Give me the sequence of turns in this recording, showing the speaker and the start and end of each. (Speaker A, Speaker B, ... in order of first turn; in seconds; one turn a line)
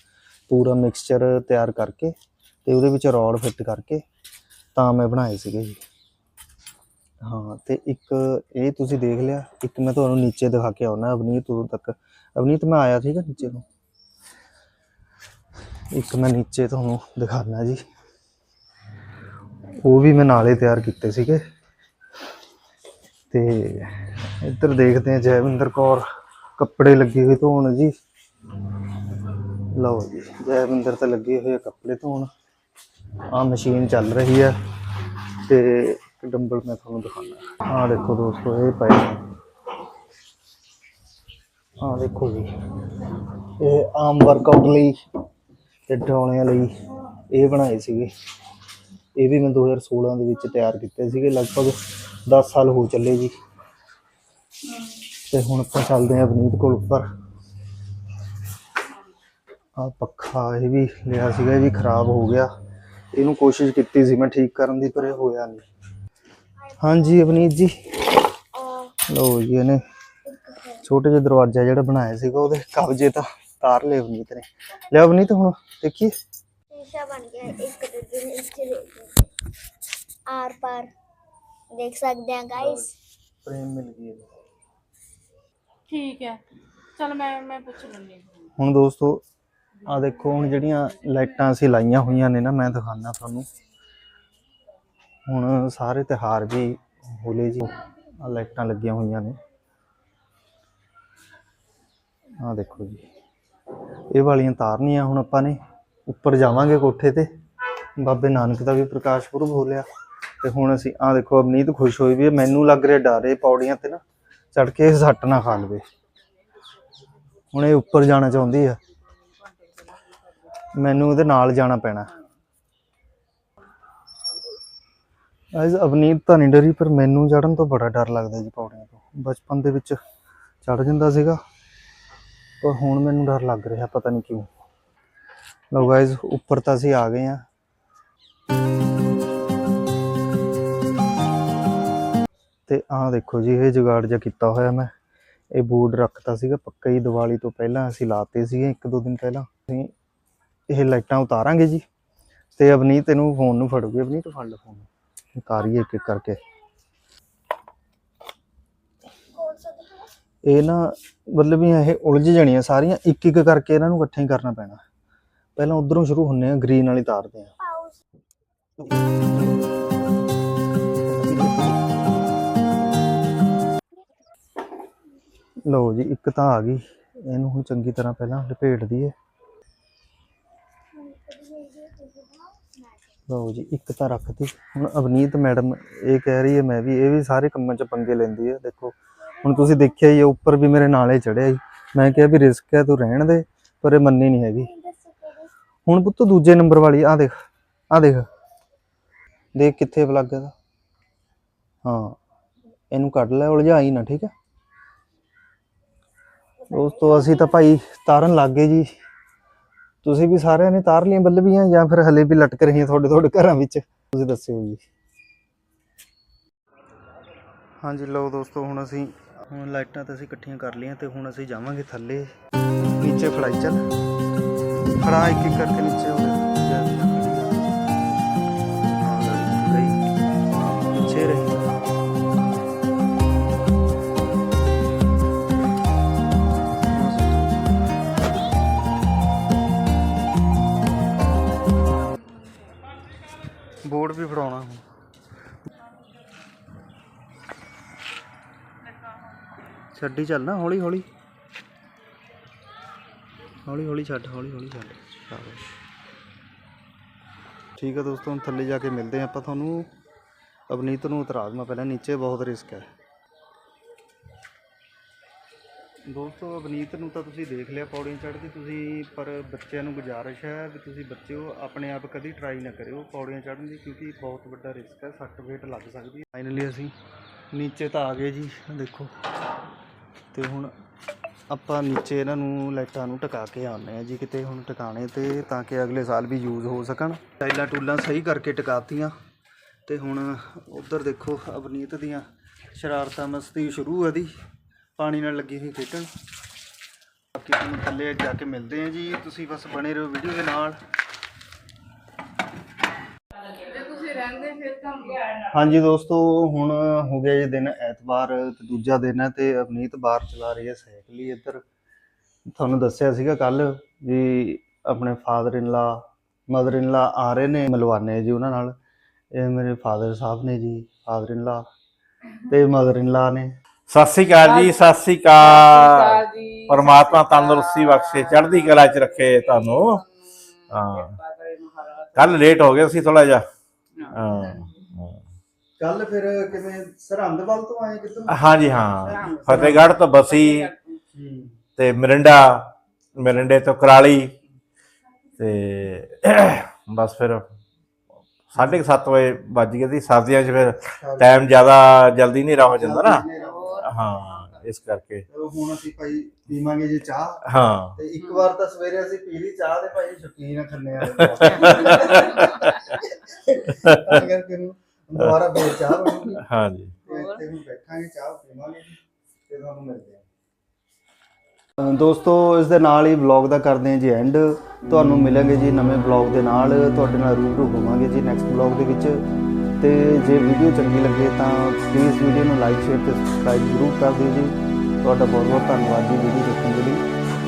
Speaker A: 0.5-2.1
Speaker A: 2.6-4.0
Speaker A: 4.7-5.8
Speaker A: 7.2-13.6
Speaker A: 15.9-17.8
Speaker A: 19.8-21.4
Speaker A: 23.3-26.0
Speaker A: 26.6-27.9
Speaker A: 29.7-32.3
Speaker A: 33.3-34.5
Speaker A: 35.5-39.2
Speaker A: 41.8-42.5
Speaker A: 43.6-44.9
Speaker A: 45.9-46.7
Speaker A: 47.3-48.1
Speaker A: 49.1-53.3
Speaker A: 55.3-57.0
Speaker A: 59.8-62.5
Speaker A: 63.1-65.7
Speaker A: 66.8-68.1
Speaker B: 68.5-68.9
Speaker A: 69.1-69.8
Speaker B: 70.2-70.8
Speaker A: 70.8-76.1
Speaker B: 76.7-79.3
Speaker B: 80.3-80.9
Speaker B: 81.7-82.9
Speaker A: 82.5-82.9
Speaker A: 83.4-84.3
Speaker C: 85.9-86.4
Speaker C: 87.0-88.4
Speaker A: 88.6-89.2
Speaker A: 89.8-93.5
Speaker A: 95.3-99.3
Speaker A: 102.4-103.0
Speaker A: 104.1-107.3
Speaker A: 108.0-109.8
Speaker A: 110.4-114.0
Speaker A: 114.5-115.8
Speaker A: 117.5-118.8
Speaker A: 120.7-122.1
Speaker A: 125.5-130.0
Speaker A: 130.6-131.4
Speaker A: 132.6-134.5
Speaker A: 135.7-137.4
Speaker A: 142.7-144.9
Speaker A: 145.5-149.9
Speaker A: 150.7-151.8
Speaker A: 152.6-156.4
Speaker B: 159.3-160.1
Speaker A: 160.4-164.8
Speaker A: 165.6-167.5
Speaker B: 167.6-168.0
Speaker A: 168.8-169.8
Speaker A: 171.0-172.2
Speaker A: 175.7-179.1
Speaker B: 180.9-183.1
Speaker A: 183.3-194.7
Speaker B: 189.2-189.9
Speaker B: 194.6-195.5
Speaker A: 195.8-197.3
Speaker A: 197.9-198.2
Speaker A: 199.5-200.5
Speaker A: 201.8-202.2
Speaker A: 202.9-204.3
Speaker B: 206.6-207.4
Speaker A: 206.7-208.9
Speaker A: 210.0-214.8
Speaker A: 217.8-222.3
Speaker A: 223.0-223.8
Speaker A: 225.0-227.6
Speaker A: 229.0-230.0
Speaker A: 230.9-231.8
Speaker A: 236.9-237.6
Speaker A: 243.8-244.8
Speaker A: 249.9-251.1
Speaker A: 253.7-255.6
Speaker A: 257.8-259.9
Speaker A: 260.7-262.9
Speaker A: 266.1-276.9
Speaker A: 277.5-279.1
Speaker A: 280.3-280.7
Speaker A: 281.5-289.1
Speaker A: 289.9-294.3
Speaker A: 295.0-296.1
Speaker A: 297.3-300.8
Speaker C: 303.6-305.4
Speaker A: 305.5-311.6
Speaker A: 312.5-318.8
Speaker A: 319.3-321.6
Speaker A: 322.5-323.5
Speaker D: 323.9-330.0
Speaker C: 324.4-324.7
Speaker C: 325.4-332.2
Speaker D: 330.7-331.2
Speaker D: 332.1-333.4
Speaker C: 334.0-334.6
Speaker D: 334.1-335.2
Speaker A: 335.8-339.8
Speaker D: 338.3-340.7
Speaker C: 339.0-341.0
Speaker A: 341.1-341.6
Speaker D: 341.8-344.3
Speaker D: 345.4-347.4
Speaker D: 348.5-353.2
Speaker A: 351.0-351.4
Speaker A: 352.7-353.9
Speaker C: 353.4-354.6
Speaker D: 353.8-355.2
Speaker A: 355.3-362.5
Speaker D: 357.5-357.9
Speaker D: 361.2-363.0
Speaker A: 363.1-366.4
Speaker D: 363.8-364.2
Speaker D: 366.4-367.0
Speaker C: 367.0-367.4
Speaker A: 367.1-369.0
Speaker A: 369.5-370.2
Speaker A: 371.8-379.2
Speaker A: 379.8-387.0